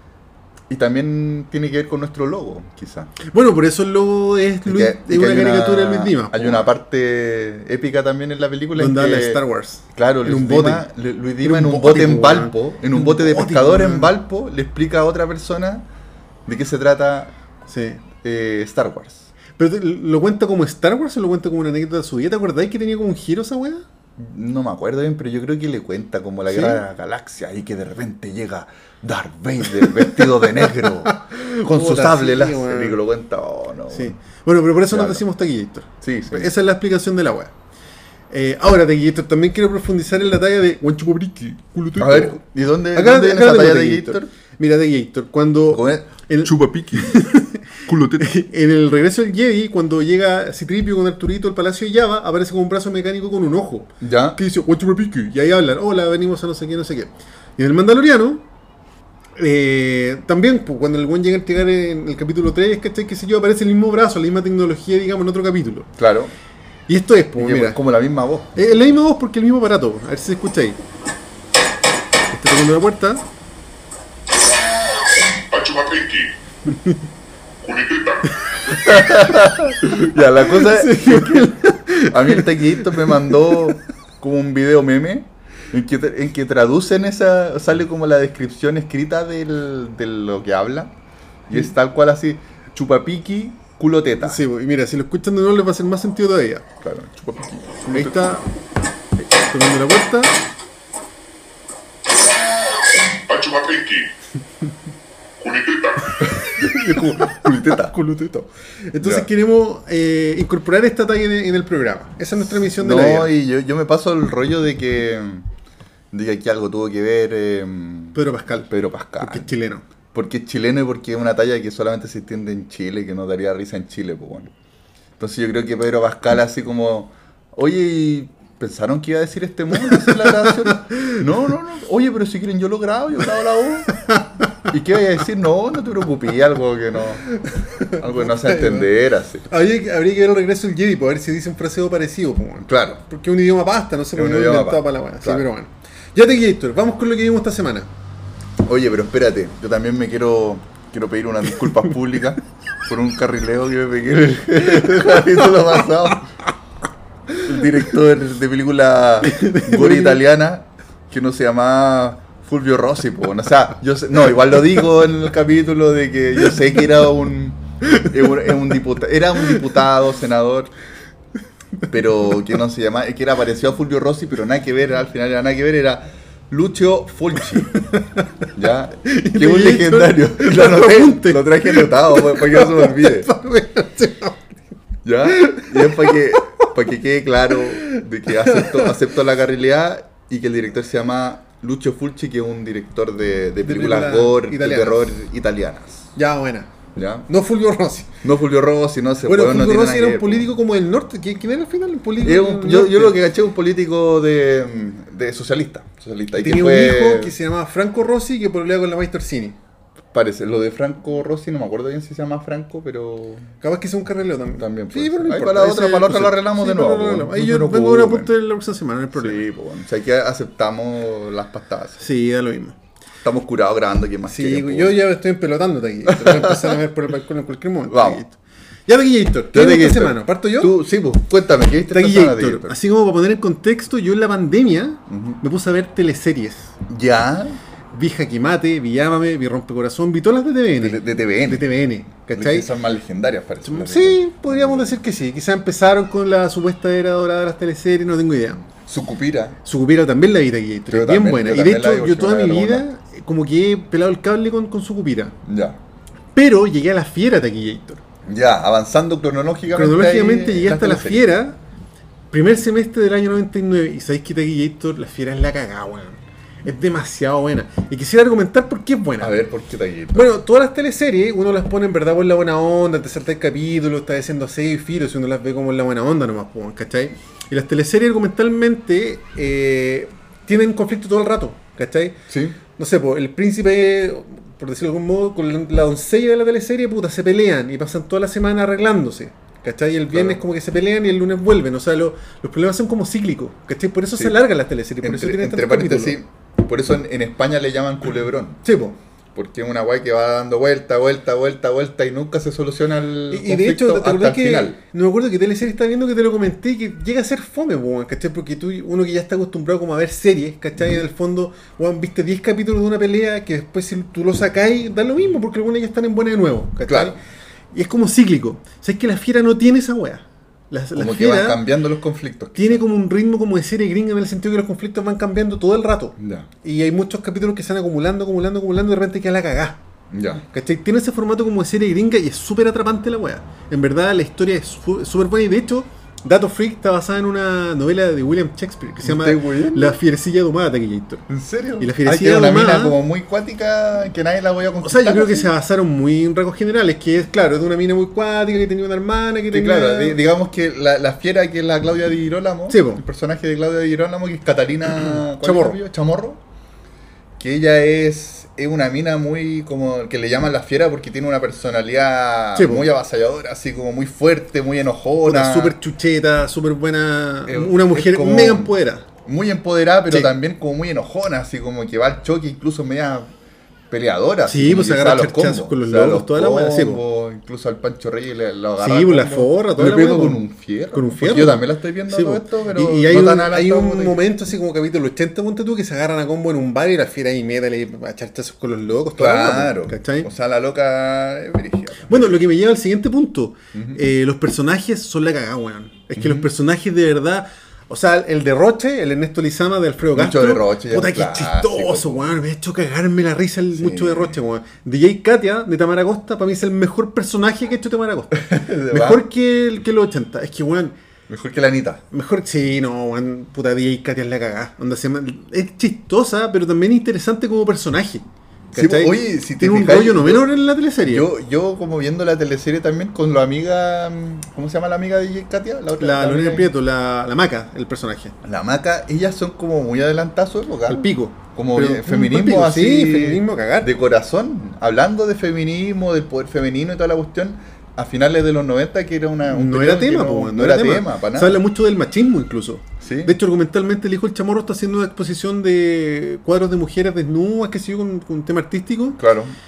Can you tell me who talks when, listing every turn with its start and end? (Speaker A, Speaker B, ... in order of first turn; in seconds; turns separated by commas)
Speaker A: 0.7-3.1, Speaker B: 3.2-6.7, Speaker A: 4.7-9.4, Speaker B: 8.8-10.9, Speaker A: 9.9-15.9, Speaker B: 11.4-14.1, Speaker A: 16.4-17.4, Speaker B: 17.7-18.0, Speaker A: 18.1-19.3, Speaker B: 19.6-23.8, Speaker A: 24.2-34.1, Speaker B: 26.5-26.8, Speaker B: 30.6-33.0, Speaker B: 33.9-37.5, Speaker A: 34.9-35.2, Speaker A: 36.0-36.5, Speaker B: 38.3-42.4, Speaker A: 42.0-44.3, Speaker B: 42.9-58.4, Speaker A: 45.7-47.2, Speaker A: 47.8-48.3, Speaker A: 54.0-54.4, Speaker B: 59.4-65.9, Speaker A: 66.0-66.3, Speaker B: 66.9-67.8, Speaker A: 67.4-68.5, Speaker B: 68.5-70.8, Speaker B: 72.3-73.2, Speaker C: 75.5-76.3, Speaker B: 76.7-77.0, Speaker C: 77.6-78.4, Speaker A: 78.7-90.9, Speaker B: 78.8-79.3, Speaker B: 79.8-83.8, Speaker A: 91.5-94.4, Speaker B: 94.2-96.7, Speaker A: 96.8-98.4, Speaker B: 97.9-98.5, Speaker B: 99.5-100.4, Speaker C: 103.1-104.1, Speaker C: 105.4-106.2, Speaker A: 106.2-108.0, Speaker B: 106.4-113.3, Speaker A: 109.0-109.3, Speaker A: 112.5-115.5, Speaker A: 116.1-119.5, Speaker B: 118.1-119.8, Speaker A: 120.1-124.5, Speaker A: 125.2-137.2, Speaker B: 129.8-131.2, Speaker B: 134.0-134.3, Speaker B: 137.3-138.9, Speaker A: 137.9-139.5, Speaker B: 139.5-147.9, Speaker A: 142.6-143.0, Speaker A: 144.1-145.5, Speaker A: 148.6-156.3, Speaker A: 157.4-170.7, Speaker B: 159.2-160.2, Speaker A: 171.9-177.8, Speaker B: 178.0-178.2, Speaker A: 178.5-183.3, Speaker B: 179.0-184.5, Speaker A: 185.0-196.1, Speaker B: 185.3-186.6, Speaker B: 187.8-189.0, Speaker B: 193.6-195.1, Speaker B: 196.2-196.7, Speaker A: 196.9-197.3, Speaker B: 197.3-198.2, Speaker A: 198.2-200.5, Speaker B: 199.2-203.1, Speaker A: 202.2-207.3, Speaker B: 206.3-209.6, Speaker A: 210.1-213.5, Speaker B: 213.6-219.4, Speaker A: 214.6-218.3, Speaker A: 219.1-222.1, Speaker B: 222.0-222.8, Speaker A: 223.2-225.0, Speaker B: 224.2-228.3, Speaker A: 226.1-226.8, Speaker A: 227.9-228.2, Speaker B: 228.9-230.8, Speaker A: 229.5-232.8, Speaker B: 231.9-236.7, Speaker A: 235.1-235.4, Speaker A: 236.9-237.6, Speaker B: 237.9-242.7, Speaker A: 240.8-241.7, Speaker A: 242.3-245.0, Speaker B: 243.6-248.6, Speaker A: 248.7-249.6, Speaker B: 249.6-255.3, Speaker A: 250.9-252.8, Speaker A: 255.4-255.8, Speaker B: 256.3-258.0, Speaker A: 258.2-261.3, Speaker B: 259.7-261.6, Speaker B: 262.3-269.4, Speaker A: 269.2-270.3, Speaker B: 270.1-282.2, Speaker A: 282.3-282.6, Speaker B: 282.8-296.2, Speaker A: 290.1-290.4, Speaker A: 295.0-298.6, Speaker B: 298.6-299.0, Speaker A: 299.3-304.8, Speaker B: 303.3-317.2, Speaker A: 316.9-317.1, Speaker B: 317.7-321.6, Speaker A: 320.9-322.8, Speaker B: 322.6-329.8, Speaker A: 326.2-326.5, Speaker A: 330.1-330.4, Speaker B: 330.5-341.2, Speaker A: 339.0-340.0, Speaker A: 341.3-345.5, Speaker B: 341.8-343.0, Speaker B: 344.8-350.2, Speaker A: 349.5-356.4, Speaker B: 352.7-353.0, Speaker B: 355.0-355.8, Speaker A: 357.4-365.7, Speaker B: 362.5-362.9, Speaker B: 365.2-369.1, Speaker A: 367.5-368.7, Speaker A: 369.2-373.3, Speaker A: 373.9-384.2, Speaker B: 374.4-377.0, Speaker B: 378.8-390.3, Speaker A: 389.2-392.4, Speaker B: 392.1-410.9, Speaker A: 393.7-394.0, Speaker A: 396.1-396.5, Speaker A: 400.1-402.3, Speaker A: 403.7-404.4, Speaker A: 408.3-409.2, Speaker A: 411.3-412.0, Speaker B: 412.1-421.3, Speaker A: 418.7-420.5, Speaker A: 421.0-426.7, Speaker B: 426.0-428.4, Speaker A: 428.4-441.6, Speaker B: 430.9-433.9, Speaker B: 439.5-449.2, Speaker A: 443.0-443.3, Speaker A: 449.2-449.5